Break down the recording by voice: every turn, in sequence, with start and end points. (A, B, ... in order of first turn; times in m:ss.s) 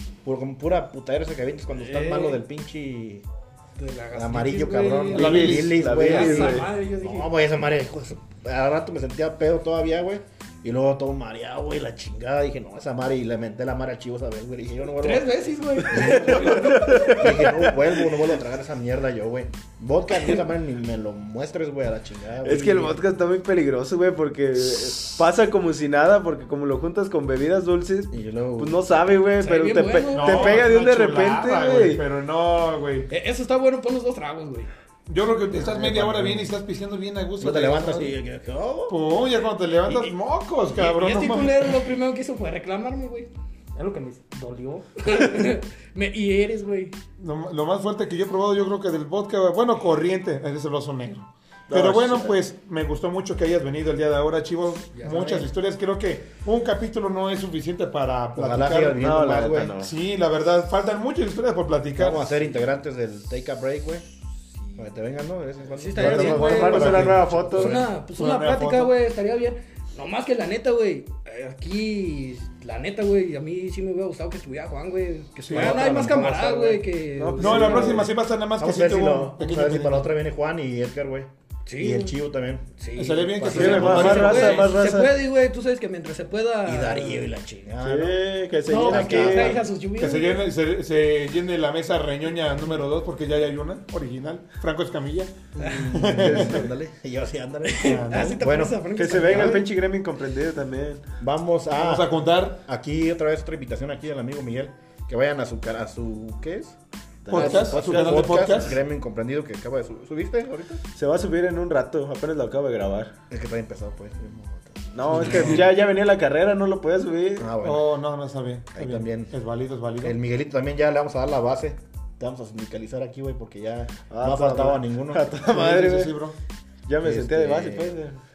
0:00.2-0:03.2 A
0:01.7-0:02.4 B
0:03.8-0:07.3 B
0:04.1-0:23.0 A
0:05.1-0:05.9 C
0:05.2-0:06.7 D
0:15.0-0:17.7 B
0:15.9-0:17.6 D
0:22.4-0:32.0 D
0:28.1-0:28.8 A
0:29.4-0:30.7 B
0:30.1-0:33.1 C
0:33.1-0:34.7 B
0:35.1-0:38.1 C
0:35.5-0:36.5 A
0:37.4-0:39.0 A
0:38.9-0:41.9 C
0:39.9-0:40.1 B
0:40.7-0:47.0 B
0:47.2-0:59.0 C
0:51.7-0:52.3 D
0:55.0-0:55.5 A
0:58.3-0:59.7 A
0:59.0-0:59.9 D
0:59.8-1:02.3 C
1:02.0-1:04.1 A
1:04.8-1:07.9 A
1:05.7-1:18.0 B
1:05.9-1:07.2 C
1:06.0-1:07.8 D
1:08.1-1:08.9 C
1:15.4-1:16.1 C
1:15.5-1:16.8 A
1:17.2-1:18.1 D
1:17.4-1:20.1 C
1:18.6-1:22.7 A
1:21.6-1:22.2 B
1:22.8-1:27.3 B
1:23.0-1:24.8 C
1:23.2-1:24.6 A
1:23.5-1:25.1 D
1:26.6-1:29.6 A
1:27.8-1:29.6 D
1:28.7-1:30.4 B
1:30.0-1:36.7 C
1:35.6-1:39.6 A
1:35.6-1:35.9 B
1:36.1-1:36.6 D
1:37.6-1:39.6 B
1:37.8-1:38.4 C
1:38.9-1:41.0 D
1:39.3-1:39.5 C
1:41.2-1:46.8 A
1:41.8-1:42.6 C
1:47.2-1:48.6 D
1:47.3-1:48.8 C
1:47.3-1:50.8 A
1:51.0-1:53.1 D
1:53.3-1:55.7 A
1:54.9-1:57.5 D
1:55.1-1:55.7 C
1:57.4-1:57.9 A
1:57.6-2:00.2 C
1:58.7-1:59.3 A
2:00.0-2:05.3 A
2:04.1-2:06.2 D
2:05.4-2:06.3 C
2:06.8-2:08.2 D
2:07.0-2:08.0 A